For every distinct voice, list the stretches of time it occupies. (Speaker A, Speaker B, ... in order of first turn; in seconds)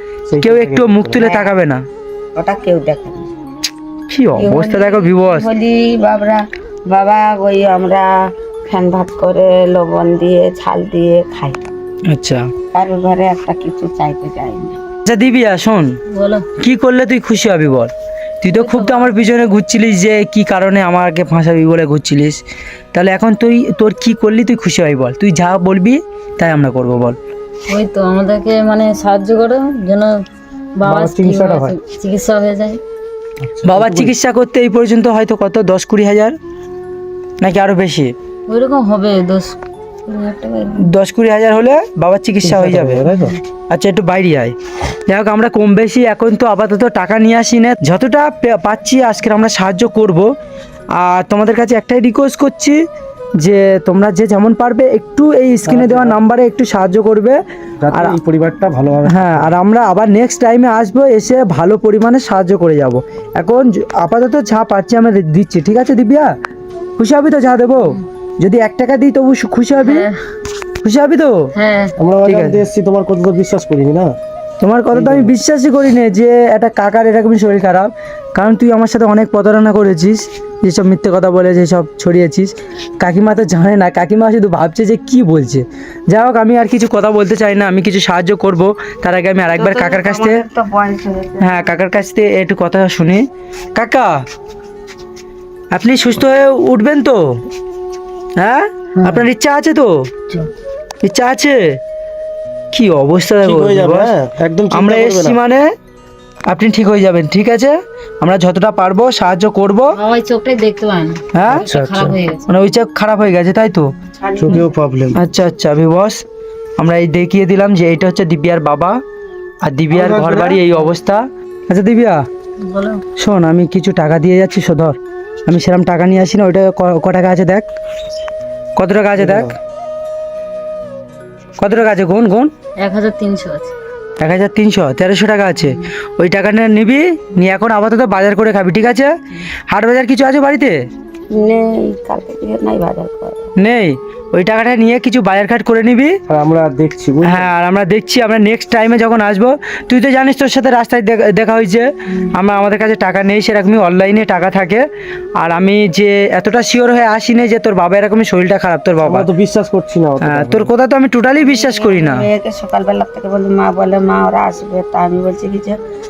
Speaker A: 0.3-1.2, 30.9-31.8, 33.4-34.1, 42.4-43.3, 55.6-56.2, 57.8-59.5, 72.0-74.1, 74.9-75.3, 103.4-105.4, 111.5-112.2, 114.4-115.2, 119.9-120.7, 129.2-129.5, 146.3-147.5, 159.1-160.7
Speaker B: 0.4-1.8, 4.1-5.5, 12.1-12.5, 15.1-15.9, 16.6-22.4, 22.9-27.2, 33.6-36.4, 37.4-38.1, 40.9-43.1, 43.7-44.5, 45.1-50.3, 51.0-52.8, 53.4-57.4, 57.9-58.2, 59.1-66.3, 67.0-70.1, 70.8-71.4, 72.2-72.6, 74.6-90.4, 91.4-94.1, 95.7-97.2, 98.4-99.9, 101.0-101.8, 102.7-104.1, 104.7-105.7, 106.5-109.9, 111.3-111.7, 112.5-113.9, 115.1-116.2, 116.8-119.0, 119.6-122.2, 123.2-127.7, 128.8-129.5, 131.6-132.5, 134.2-139.1, 139.7-140.8, 143.6-146.1, 147.2-154.9, 155.4-159.3, 160.2-162.2
Speaker C: 1.2-1.5, 2.4-3.3, 4.4-8.1, 8.7-11.6, 12.7-14.8, 40.1-40.9, 89.5-91.8, 99.0-99.2, 114.2-114.7, 141.3-143.5, 161.4-165.8
Speaker D: 16.1-16.5, 18.5-19.1, 27.7-30.2, 30.8-32.8, 38.5-39.6, 69.8-70.2, 71.5-71.9, 109.9-112.6, 122.6-123.0, 132.8-133.7